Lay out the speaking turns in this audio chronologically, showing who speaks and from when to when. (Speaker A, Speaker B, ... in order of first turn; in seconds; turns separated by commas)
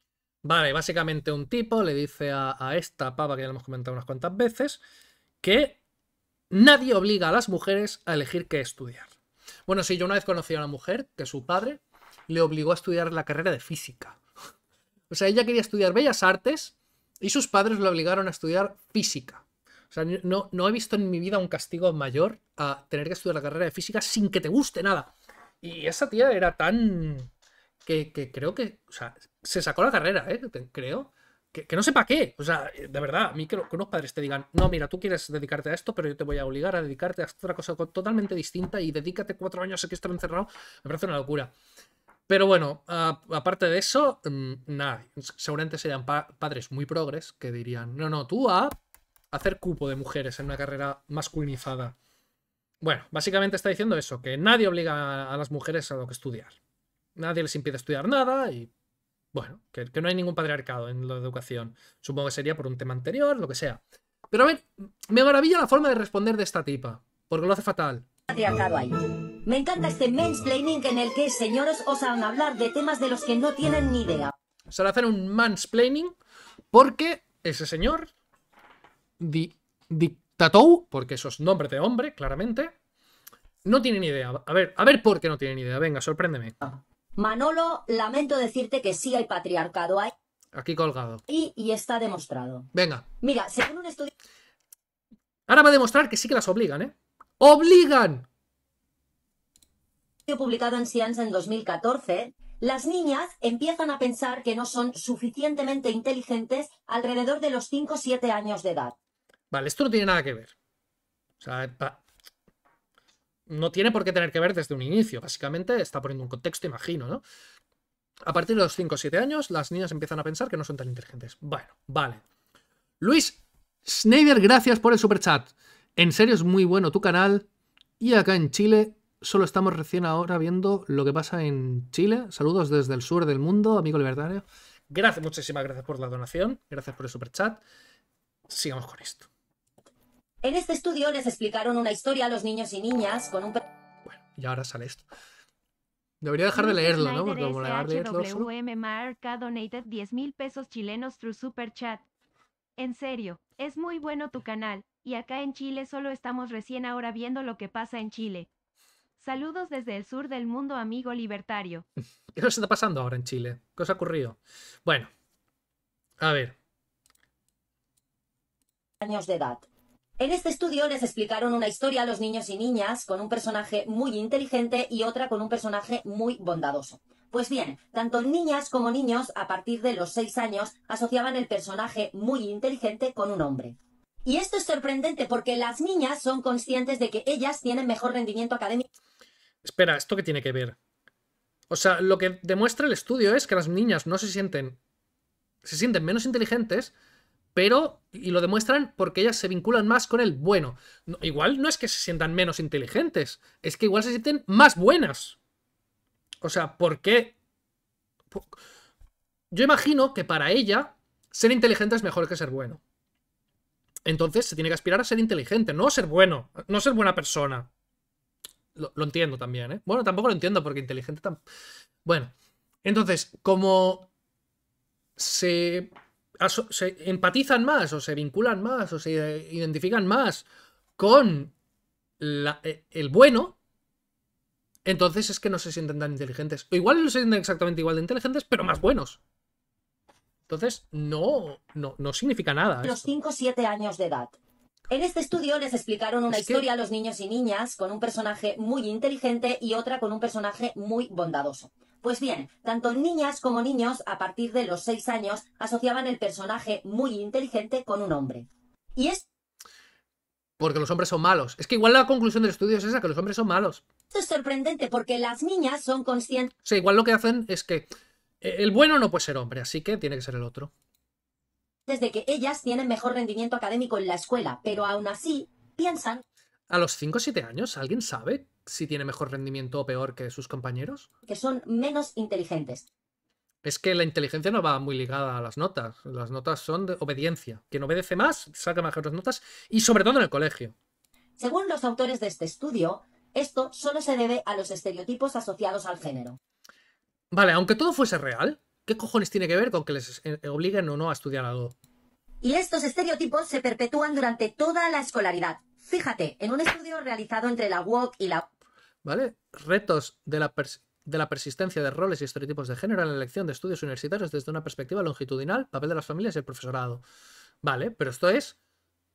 Speaker A: 0.4-4.8, Speaker A: 5.4-5.8, Speaker A: 6.5-9.1, Speaker A: 9.7-14.2, Speaker A: 15.1-25.1, Speaker A: 25.6-27.3, Speaker A: 27.8-41.5, Speaker A: 42.3-48.8, Speaker A: 49.3-52.0, Speaker A: 52.8-56.5, Speaker A: 57.1-58.7, Speaker A: 59.3-68.1, Speaker B: 68.3-74.3, Speaker A: 74.7-76.1, Speaker A: 76.7-78.1, Speaker A: 79.2-82.7, Speaker A: 83.6-86.5, Speaker B: 86.6-90.1, Speaker A: 90.5-91.2, Speaker B: 91.3-92.7, Speaker A: 92.7-93.1, Speaker B: 93.2-94.1, Speaker A: 95.5-98.3, Speaker B: 100.3-108.9, Speaker A: 109.5-110.5, Speaker A: 111.4-112.0, Speaker A: 113.5-117.2, Speaker A: 118.2-122.2, Speaker A: 123.0-127.5, Speaker A: 128.0-137.6, Speaker A: 138.5-139.3, Speaker B: 140.4-143.6, Speaker A: 144.1-145.0, Speaker A: 146.2-148.5, Speaker C: 146.5-152.1, Speaker C: 152.8-158.5, Speaker C: 159.2-161.8, Speaker A: 162.3-165.1, Speaker A: 166.2-166.6, Speaker B: 169.0-169.7, Speaker B: 170.2-188.9, Speaker A: 189.6-190.8, Speaker A: 191.7-194.8, Speaker A: 195.6-196.9, Speaker A: 197.5-205.4, Speaker A: 206.4-207.3, Speaker A: 209.5-212.8, Speaker A: 214.1-217.7, Speaker A: 218.8-221.4, Speaker A: 222.0-222.3, Speaker A: 222.8-224.1, Speaker A: 225.2-230.5, Speaker A: 231.0-231.5, Speaker A: 232.2-233.6, Speaker A: 234.8-239.2, Speaker A: 240.5-243.1, Speaker B: 242.8-244.3, Speaker B: 244.9-259.2, Speaker A: 246.3-246.6, Speaker A: 260.6-263.8, Speaker B: 264.1-266.5, Speaker A: 266.6-270.7, Speaker B: 271.9-276.2, Speaker A: 276.7-281.1, Speaker B: 281.3-282.9, Speaker A: 283.6-290.8, Speaker B: 291.4-296.4, Speaker A: 297.3-301.8, Speaker B: 302.4-308.5, Speaker A: 309.0-317.0, Speaker A: 317.6-318.6